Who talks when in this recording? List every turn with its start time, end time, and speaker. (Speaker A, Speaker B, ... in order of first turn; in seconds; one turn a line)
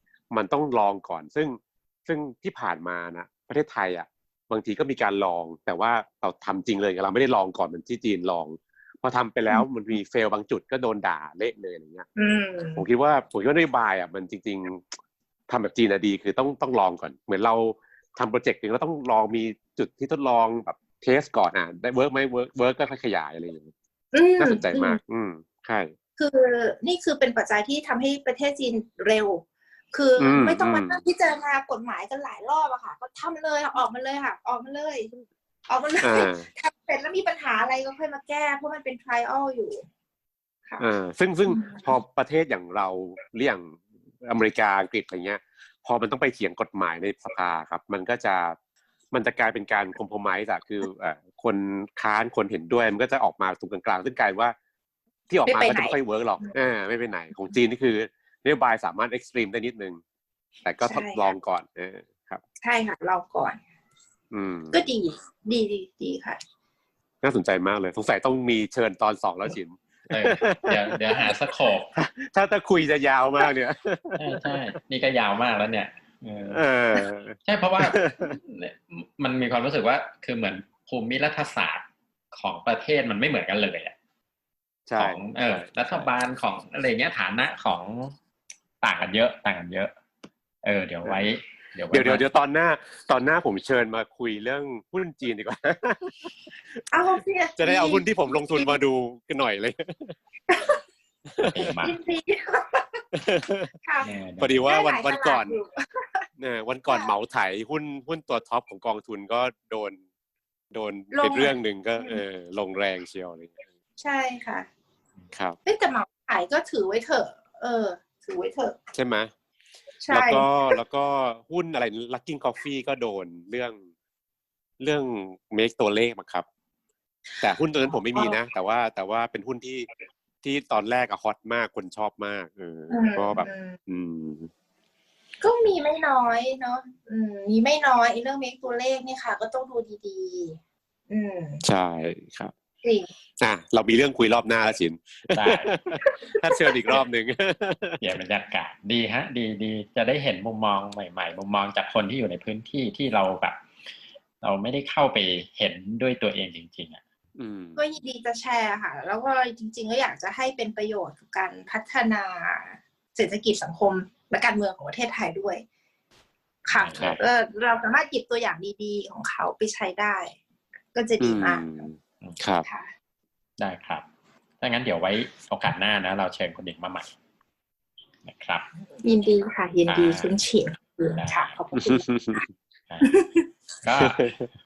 Speaker A: 0.3-12.1
Speaker B: 12.2-12.8
Speaker A: 12.8-14.9
Speaker A: 15.5-23.7
Speaker B: 24.1-25.0
Speaker A: 24.4-25.9
Speaker B: 26.2-35.1
Speaker A: 30.2-31.0
Speaker B: 35.7-39.9
Speaker A: 36.0-36.5
Speaker B: 40.7-40.9
Speaker A: 40.8-48.6
Speaker B: 41.5-41.9
Speaker A: 49.1-54.5
Speaker A: 55.3-60.0
Speaker B: 55.5-56.6
Speaker A: 60.6-62.4
Speaker B: 60.8-61.4
Speaker B: 62.6-63.6
Speaker A: 64.3-64.8
Speaker B: 64.7-66.4
Speaker A: 67.2-71.3
Speaker C: 70.1-71.9
Speaker A: 72.0-74.7
Speaker C: 74.2-83.9
Speaker A: 76.5-78.4
Speaker A: 84.9-86.1
Speaker C: 85.0-88.2
Speaker C: 88.8-89.9
Speaker C: 90.6-92.2
Speaker A: 91.9-96.3
Speaker B: 96.9-98.8
Speaker A: 97.6-100.2
Speaker B: 100.5-100.8
Speaker A: 101.3-101.7
Speaker C: 101.5-102.0
Speaker B: 101.8-103.0
Speaker A: 103.2-103.7
Speaker B: 103.8-104.1
Speaker C: 104.0-104.6
Speaker A: 104.4-105.6
Speaker B: 104.6-106.3
Speaker A: 106.4-110.0
Speaker B: 106.9-107.2
Speaker A: 110.7-113.6
Speaker B: 111.1-112.2
Speaker B: 114.0-114.7
Speaker A: 115.3-115.6
Speaker B: 115.7-118.8
Speaker A: 118.9-119.3
Speaker B: 120.0-120.8
Speaker A: 120.1-123.8
Speaker A: 124.8-126.5
Speaker A: 127.4-129.9
Speaker B: 127.9-128.4
Speaker A: 130.4-134.5
Speaker B: 132.9-133.8
Speaker B: 135.4-141.6
Speaker A: 141.6-142.5
Speaker B: 142.8-143.1
Speaker A: 143.4-148.1
Speaker C: 145.3-145.7
Speaker B: 146.0-146.8
Speaker C: 148.0-153.6
Speaker C: 154.4-157.0
Speaker A: 157.4-157.8
Speaker B: 157.8-165.7
Speaker B: 166.7-170.4
Speaker C: 166.7-167.2
Speaker B: 170.9-171.9
Speaker A: 171.2-172.7
Speaker B: 172.6-172.9
Speaker C: 173.6-174.0
Speaker C: 174.6-177.1
Speaker C: 178.2-178.7
Speaker B: 179.0-182.4
Speaker C: 179.9-180.4
Speaker C: 181.2-181.6
Speaker A: 181.8-182.4
Speaker B: 183.0-183.5
Speaker C: 183.8-184.3
Speaker A: 184.0-184.5